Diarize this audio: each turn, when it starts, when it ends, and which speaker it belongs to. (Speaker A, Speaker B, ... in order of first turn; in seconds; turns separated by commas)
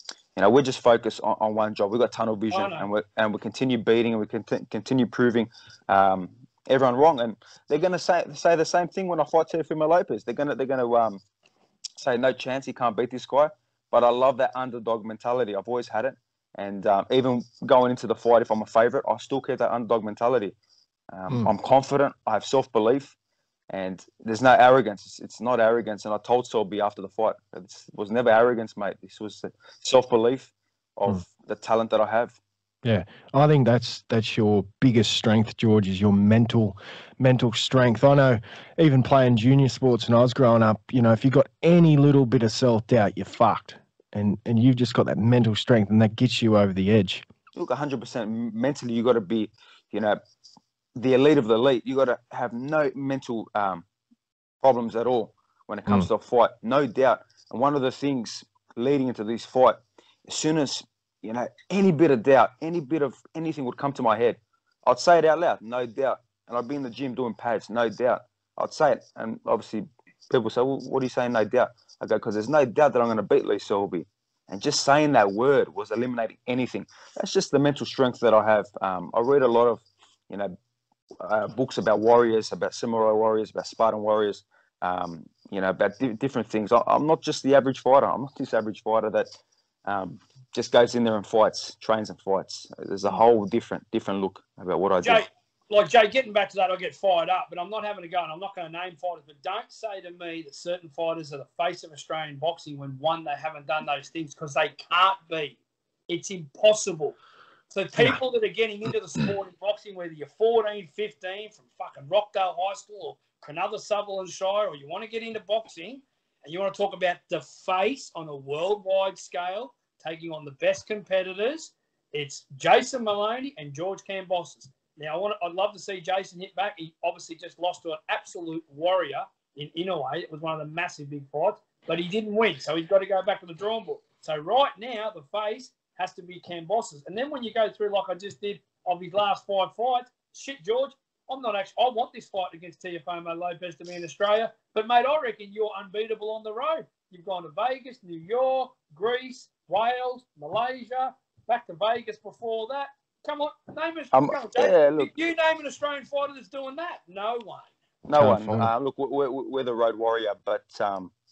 Speaker A: 0.4-11.2, Speaker B: 2.5-2.9, Speaker A: 12.0-20.6, Speaker A: 21.1-23.1, Speaker A: 23.7-32.4, Speaker C: 32.8-47.2, Speaker A: 47.6-50.2, Speaker A: 51.0-53.9, Speaker A: 54.6-80.6, Speaker A: 81.2-89.3, Speaker A: 89.9-95.3, Speaker B: 95.0-105.6, Speaker B: 106.1-107.2, Speaker B: 107.7-157.7, Speaker A: 154.1-155.1, Speaker A: 158.1-161.1, Speaker C: 158.2-158.7